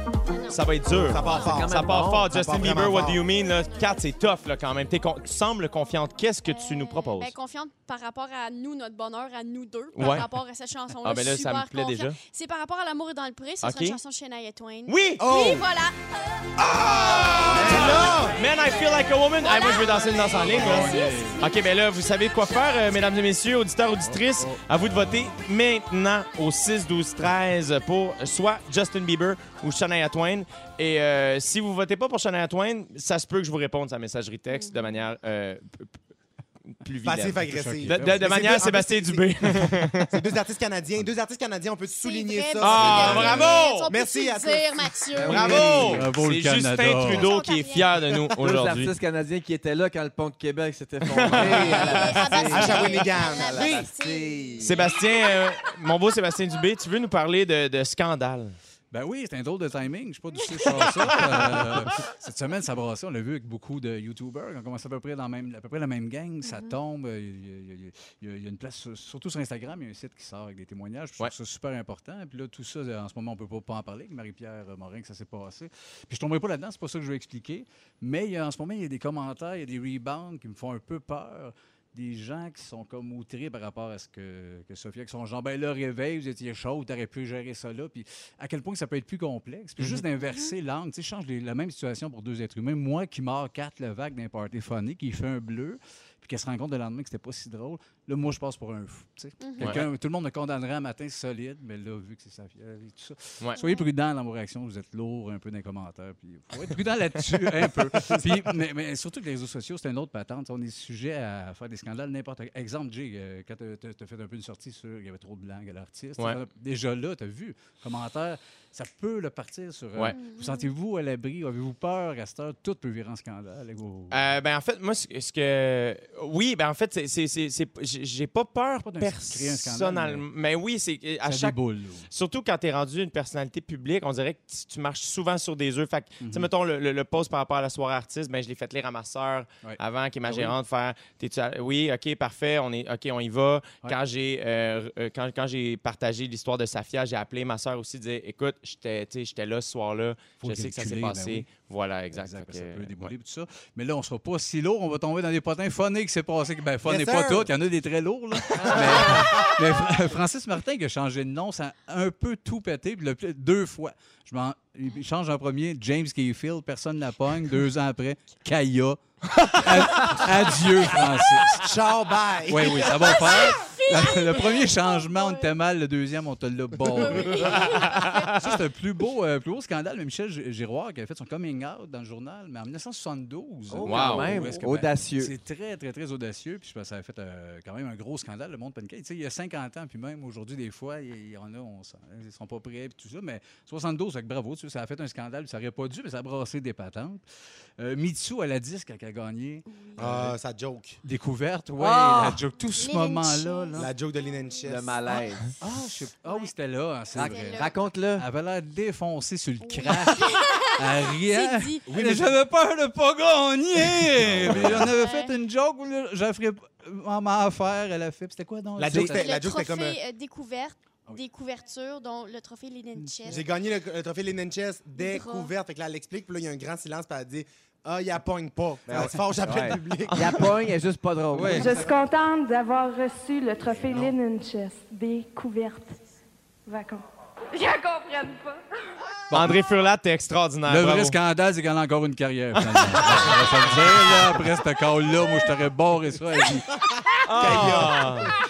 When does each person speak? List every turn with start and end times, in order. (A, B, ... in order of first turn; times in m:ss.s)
0:00.3-0:00.6 A
0:00.5-0:07.3 B
0:00.9-0:03.3 C
0:01.2-0:01.6 A
0:01.3-0:02.9 D
0:03.3-0:04.0 A
0:06.5-0:16.0 A
0:10.0-0:10.3 B
0:11.0-0:12.2 B
0:13.6-0:14.0 B
0:14.9-0:15.2 B
0:15.2-0:15.7 C
0:16.9-0:35.9 B
0:17.4-0:18.2 A
0:17.5-0:18.4 C
0:19.4-0:21.7 A
0:20.3-0:21.5 E
0:24.0-0:25.4 E
0:34.5-0:35.0 A
0:36.8-0:40.1 B
0:37.0-0:45.9 C
0:37.5-0:38.3 E
0:42.0-0:45.8 A
0:42.6-0:43.9 B
0:45.2-0:46.1 D
0:45.3-0:48.9 B
0:46.0-0:47.3 E
0:47.0-0:48.0 A
0:48.4-0:55.0 D
0:51.1-0:52.7 B
0:51.3-0:53.8 C
0:51.4-0:55.4 A
0:54.6-0:58.6 B
0:58.9-2:04.2 E
1:00.8-1:01.6 B
1:06.4-1:06.8 A
1:30.3-1:30.5 A
1:39.4-1:39.8 A
1:39.6-1:39.9 B
1:43.6-1:43.9 A
2:00.1-2:00.7 A
2:04.1-2:11.6 B
2:08.8-2:10.2 E
2:11.2-2:12.1 E
2:12.1-2:33.1 B
2:16.2-2:16.5 E
2:19.6-2:20.6 E
2:30.4-2:31.5 E
2:32.1-2:51.7 E
2:36.8-2:37.5 C
2:38.7-2:39.4 C
2:51.6-2:53.2 C
2:52.5-3:17.2 E
2:52.9-2:55.5 A
2:56.9-2:58.4 A
2:57.4-2:58.5 B
3:03.7-3:05.3 D
3:03.8-3:04.4 B
3:17.8-3:20.4 E
3:19.7-3:20.0 A
3:20.0-3:21.0 C
3:21.0-3:23.9 E
3:21.8-3:22.4 D
3:22.8-3:23.8 A
3:23.8-3:25.0 C
3:24.6-3:25.6 D
3:25.6-3:39.2 E
3:26.2-3:26.5 A
3:27.1-3:27.7 A
3:27.2-3:28.3 D
3:29.6-3:31.8 A
3:31.9-3:32.4 C
3:34.2-3:34.8 C
3:34.8-3:35.4 A
3:38.8-3:40.0 C
3:39.0-3:43.4 A
3:43.3-3:50.7 C
3:45.0-3:45.5 A
3:48.9-3:51.9 D
3:51.3-3:51.9 E
3:51.5-3:56.0 F
3:53.8-3:54.1 C
3:56.7-3:58.6 F
3:59.3-3:59.6 E
3:59.3-4:01.2 B
4:00.7-4:06.8 E
4:02.6-4:03.3 B
4:07.2-4:08.4 B
4:07.3-4:08.3 C
4:07.5-4:07.7 E